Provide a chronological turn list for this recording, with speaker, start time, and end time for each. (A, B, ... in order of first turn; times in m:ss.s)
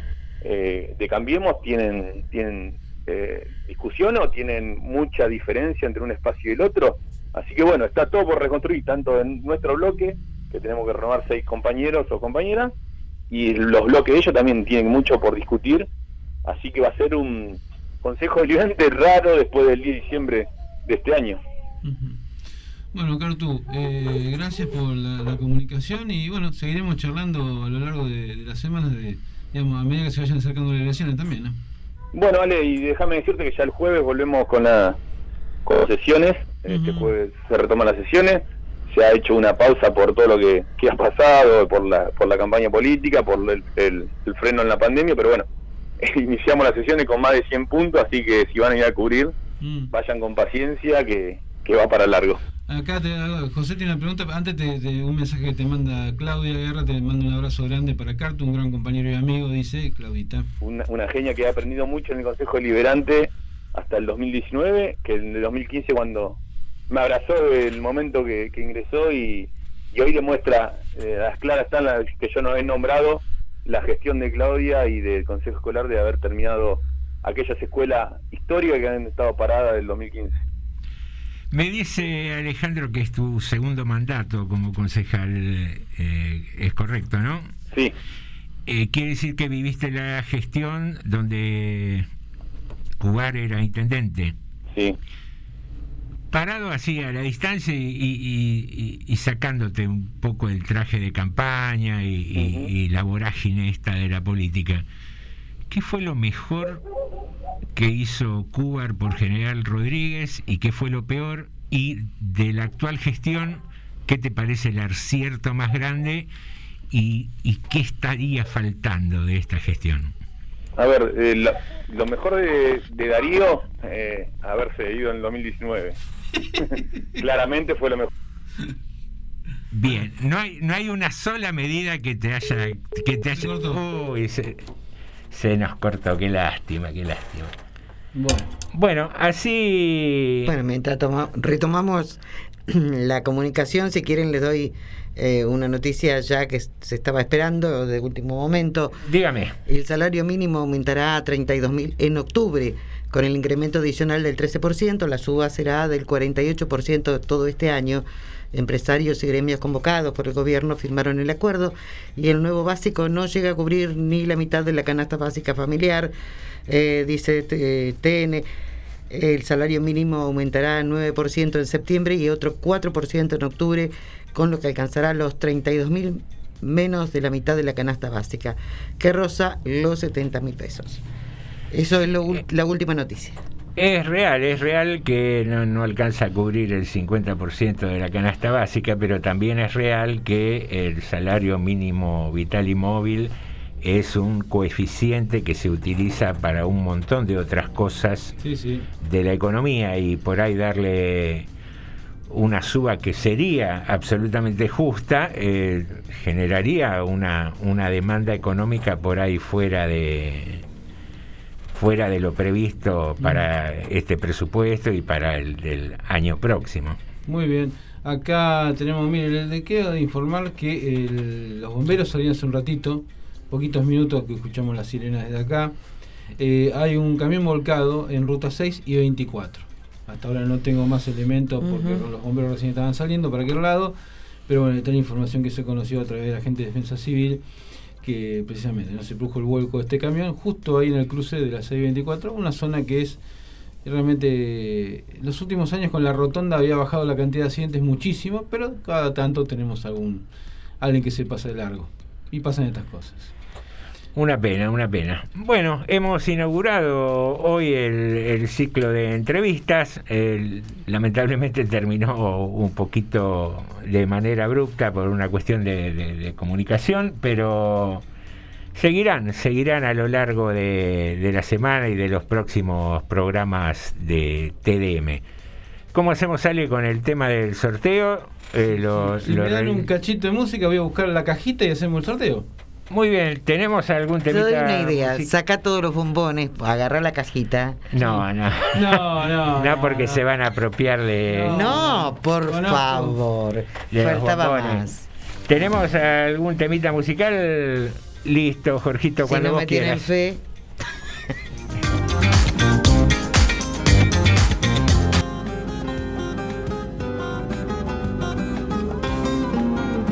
0:00.4-0:12.7 A
0:13.3-0:15.9 A
0:16.4-0:21.4 A
0:21.8-0:22.2 B
0:22.9-0:31.6 B
0:32.1-0:35.0 A
0:35.6-0:45.4 A
0:36.7-0:37.1 B
0:46.0-0:49.3 A
0:49.6-0:49.9 B
0:49.9-0:52.4 A
0:52.7-1:00.5 B
1:00.6-1:20.4 A
1:21.5-1:27.5 C
1:28.7-1:32.1 C
1:33.0-1:34.4 C
1:36.3-1:44.8 C
1:42.4-1:42.7 A
1:45.7-1:46.8 C
1:47.7-1:56.3 C
1:56.9-2:00.1 C
2:00.8-2:06.0 A
2:06.6-2:08.1 A
2:09.7-2:14.6 C
2:13.3-2:13.8 B
2:15.3-2:17.5 C
2:18.1-2:18.5 B
2:18.7-2:20.5 C
2:20.4-2:28.9 D
2:29.0-2:29.6 C
2:29.7-2:46.1 D
2:46.7-2:48.5 D
2:49.1-3:01.0 D
3:01.7-3:03.4 D
3:03.8-3:18.3 C
3:18.4-3:18.9 B
3:19.0-3:21.5 C
3:22.3-3:30.6 C
3:31.7-3:37.0 C
3:33.2-3:33.4 B
3:37.2-3:45.7 B
3:46.4-3:53.9 B
3:51.6-3:52.0 D
3:54.5-3:57.4 B
3:58.0-4:03.2 B
4:03.8-4:10.2 B
4:10.8-4:13.3 B
4:14.2-4:28.0 C
4:28.7-4:35.2 C
4:35.9-4:39.8 C
4:38.7-4:42.4 B
4:42.9-4:45.3 C
4:44.3-4:47.8 D
4:47.9-4:49.0 C
4:48.7-4:50.2 B
4:49.6-4:51.7 C
4:51.3-4:53.2 B
4:51.5-4:55.1 D
4:53.9-4:54.9 C
4:55.5-5:00.1 C
4:59.2-5:00.4 D